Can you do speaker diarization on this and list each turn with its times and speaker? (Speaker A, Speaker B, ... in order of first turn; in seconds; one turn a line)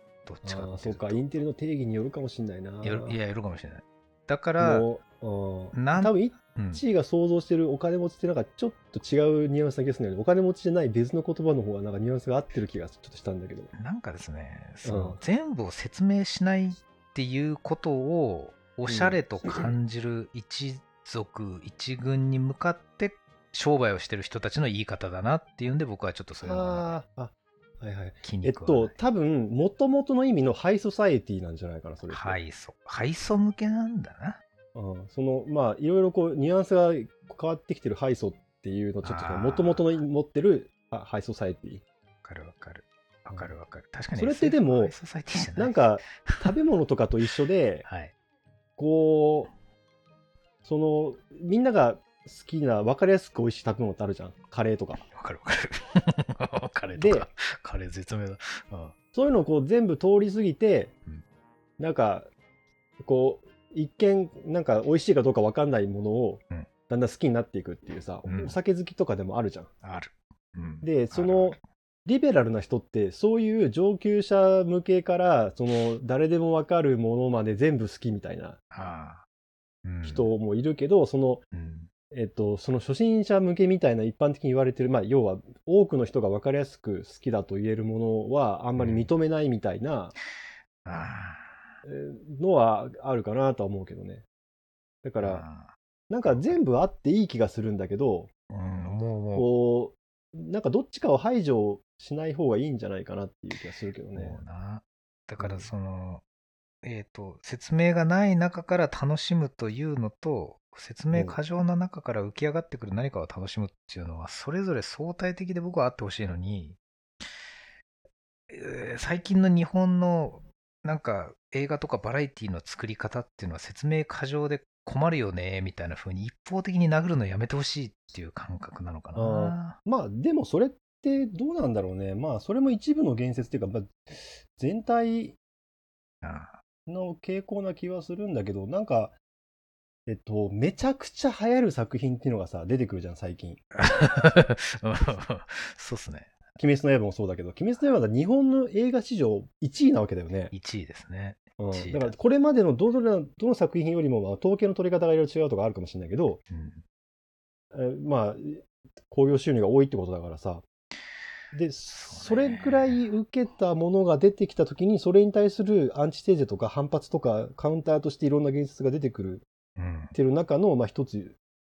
Speaker A: 0.2-1.2
Speaker B: 0.4-3.2
Speaker A: 2.8-4.9
Speaker B: 4.6-13.7
Speaker A: 5.7-6.8
Speaker A: 13.7-26.9
Speaker B: 14.8-15.2
Speaker B: 18.9-19.7
Speaker B: 26.4-32.4
Speaker A: 28.2-28.9
Speaker A: 32.1-34.4
Speaker B: 34.7-41.8
Speaker A: 39.0-39.9
Speaker A: 42.2-46.5
Speaker B: 44.1-44.9
Speaker B: 45.5-47.9
Speaker A: 47.8-48.1
Speaker B: 48.8-49.5
Speaker B: 50.6-55.0
Speaker A: 55.1-58.9
Speaker B: 56.9-57.3
Speaker B: 59.1-60.9
Speaker B: 61.8-62.3
Speaker B: 63.0-69.7
Speaker A: 68.3-68.5
Speaker A: 69.8-71.6
Speaker B: 70.8-78.6
Speaker A: 78.7-79.2
Speaker A: 79.8-80.3
Speaker B: 80.0-81.4
Speaker A: 81.5-81.9
Speaker B: 82.1-90.1
Speaker A: 88.8-89.1
Speaker A: 90.8-91.5
Speaker B: 91.8-94.2
Speaker B: 95.0-95.4
Speaker A: 95.2-95.7
Speaker B: 96.1-98.3
Speaker A: 96.3-96.6
Speaker A: 98.5-99.5
Speaker B: 99.3-104.4
Speaker A: 104.1-106.2
Speaker B: 105.4-105.7
Speaker A: 106.8-116.8
Speaker B: 111.1-111.4
Speaker A: 118.5-129.8
Speaker B: 129.2-135.4
Speaker A: 136.2-136.6
Speaker B: 136.8-139.1
Speaker B: 140.1-143.6
Speaker A: 143.7-146.3
Speaker B: 146.6-150.5
Speaker A: 150.5-152.1
Speaker B: 151.6-156.4
Speaker A: 156.5-156.8
Speaker B: 157.7-160.6
Speaker B: 161.5-169.4
Speaker A: 161.9-163.0
Speaker A: 169.8-170.1
Speaker B: 170.1-171.4